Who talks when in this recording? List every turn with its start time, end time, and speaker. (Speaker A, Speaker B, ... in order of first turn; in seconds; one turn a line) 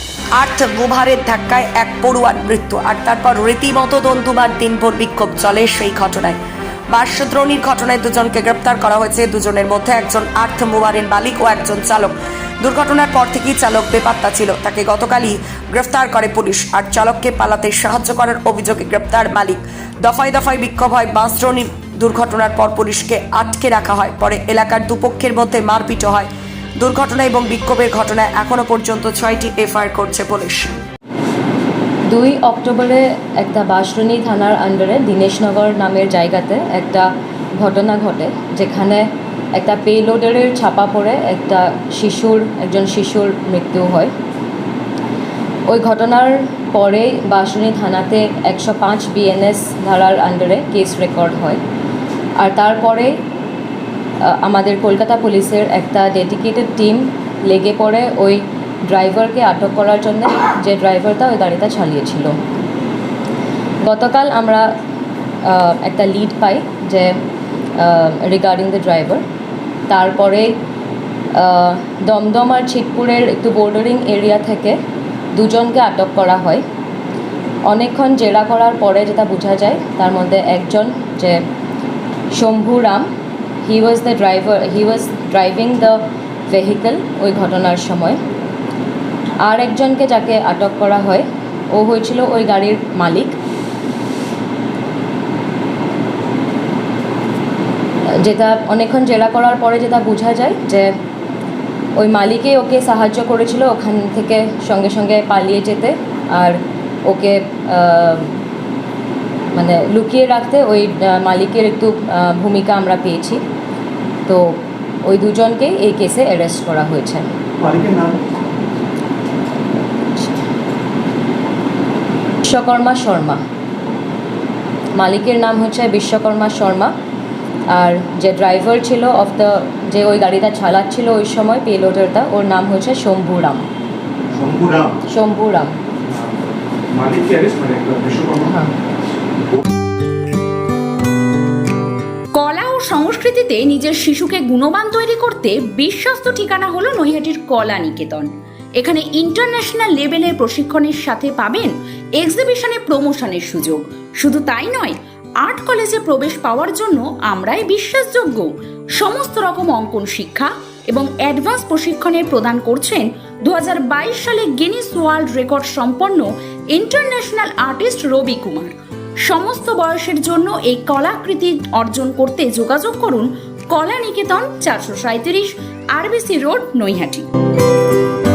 Speaker A: 0.4-6.4
Speaker A: 6.9-30.7
Speaker B: 32.1-44.1
Speaker B: 45.7-51.6
Speaker B: 52.4-53.1
Speaker B: 54.2-62.3
Speaker B: 63.8-64.7
Speaker B: 65.4-67.1
Speaker B: 67.8-69.2
Speaker B: 69.9-70.5
Speaker B: 71.3-74.8
Speaker B: 75.3-76.6
Speaker B: 77.7-81.4
Speaker B: 82.3-83.1
Speaker B: 83.6-88.2
Speaker B: 89.4-93.3
Speaker B: 98.2-100.9
Speaker B: 102.0-108.3
Speaker B: 109.5-113.4
Speaker B: 114.3-114.5
Speaker B: 115.0-117.2
Speaker C: 117.6-118.2
Speaker B: 122.4-123.4
Speaker B: 124.9-126.9
Speaker B: 127.7-133.6
Speaker C: 134.3-134.9
Speaker B: 135.1-135.8
Speaker C: 136.9-138.5
Speaker D: 142.3-168.7
Speaker D: 169.2-177.3